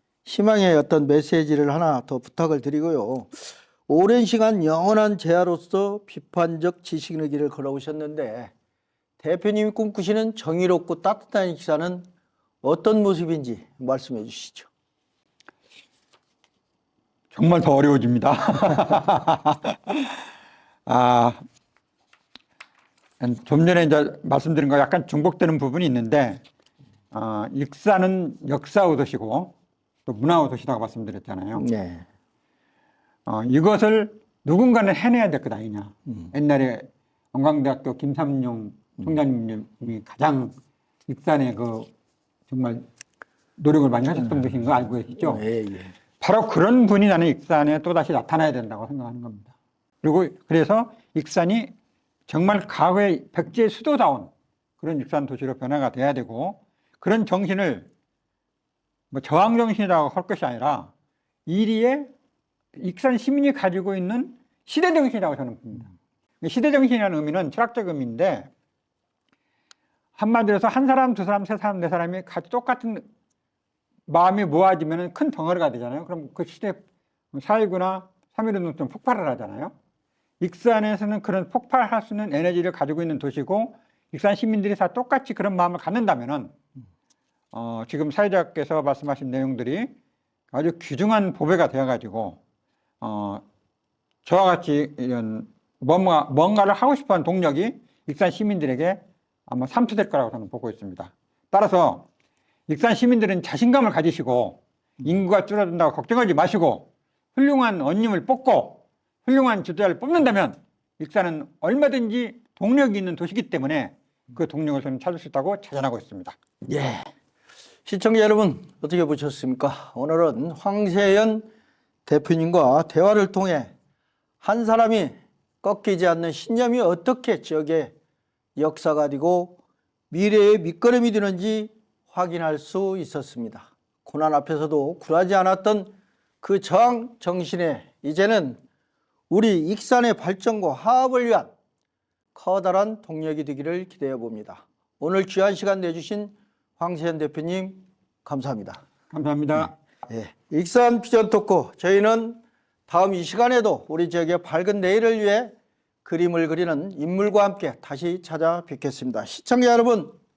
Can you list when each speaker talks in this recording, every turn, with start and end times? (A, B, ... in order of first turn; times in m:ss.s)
0:00.2-0:08.5 A
0:09.2-0:12.0 A
0:12.6-0:14.7 A
0:17.3-0:20.2 B
0:20.8-0:21.4 B
0:23.2-0:26.4 B
0:27.1-0:29.5 B
0:30.0-0:31.6 B
0:31.6-0:32.0 A
0:33.2-0:40.5 B
0:41.1-0:41.9 B
0:42.5-0:42.8 B
0:43.6-0:45.4 B
0:45.2-0:45.9 A
0:46.2-0:51.7 B
0:52.3-0:57.9 B
0:59.1-1:00.9 B
1:01.5-1:02.1 B
1:02.8-1:08.5 B
1:10.2-1:13.0 B
1:14.1-1:16.8 B
1:17.3-1:19.7 B
1:20.4-1:26.5 B
1:27.5-1:29.9 B
1:30.5-1:32.4 B
1:33.0-1:33.4 B
1:34.2-1:42.1 B
1:42.7-1:56.4 B
1:56.6-1:57.1 A
1:57.8-2:01.5 A
2:02.0-2:03.7 A
2:04.4-2:07.9 A
2:08.6-2:09.6 A
2:10.1-2:18.6 A
2:19.3-2:21.5 A
2:22.3-2:28.8 A
2:29.1-2:29.8 B
2:30.1-2:40.1 A